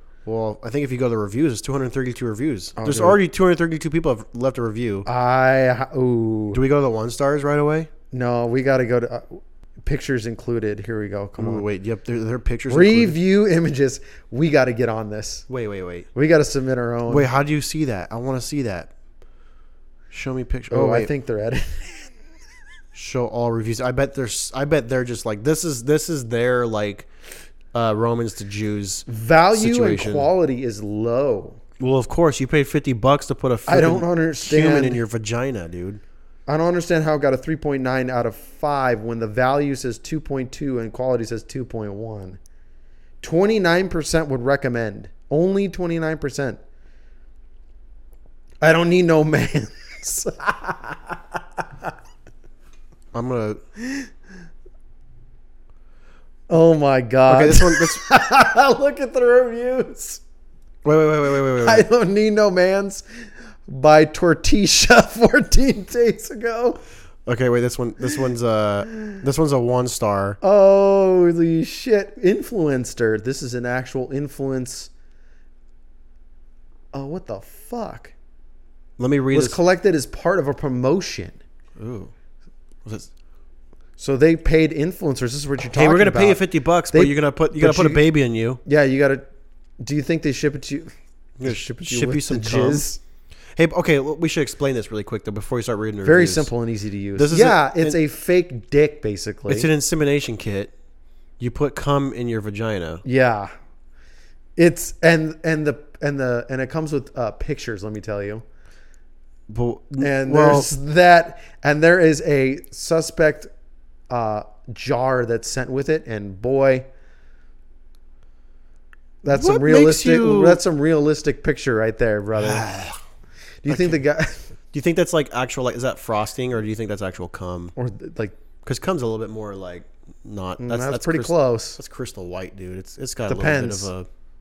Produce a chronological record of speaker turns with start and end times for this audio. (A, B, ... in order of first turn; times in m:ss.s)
0:00.3-0:05.1 A
0:02.8-0:03.2 B
0:05.1-0:06.6 B
0:06.5-0:07.9 A
0:08.1-0:11.7 B
0:11.4-0:13.2 A
0:12.7-0:15.4 B
0:15.5-0:16.1 A
0:16.1-0:17.3 B
0:17.1-0:18.9 A
0:20.1-0:21.1 A
0:20.7-0:22.1 B
0:22.9-0:27.1 A
0:27.7-0:30.3 A
0:29.1-0:31.6 B
0:31.8-0:36.0 A
0:33.7-0:35.0 B
0:36.5-0:42.4 B
0:43.2-0:46.6 B
0:48.6-0:51.9 B
0:53.1-0:53.6 A
0:56.5-1:00.2 B
0:57.3-0:58.0 A
1:00.8-1:01.9 A
1:01.6-1:03.0 B
1:03.7-1:06.8 B
1:07.3-1:10.4 A
1:10.4-1:14.9 B
1:16.9-1:18.1 B
1:19.0-1:19.6 A
1:19.3-1:21.4 B
1:21.8-1:22.1 A
1:24.0-1:28.0 B
1:25.7-1:28.6 A
1:28.6-1:29.3 B
1:29.8-1:30.9 B
1:31.4-1:32.9 A
1:31.4-1:33.0 B
1:33.6-1:36.5 A
1:36.0-1:39.7 B
1:37.2-1:38.0 A
1:39.5-1:40.7 A
1:41.4-1:43.0 A
1:43.0-1:43.5 B
1:44.6-1:48.4 B
1:49.5-1:50.7 A
1:50.0-1:53.5 B
1:54.1-1:56.9 B
1:59.2-2:02.7 B
1:59.3-2:00.6 A
2:02.4-2:03.0 A
2:03.6-2:04.5 B
2:03.7-2:04.0 A
2:04.7-2:07.7 A
2:07.8-2:08.4 B
2:08.6-2:14.1 A
2:10.6-2:11.8 B
2:13.3-2:13.9 B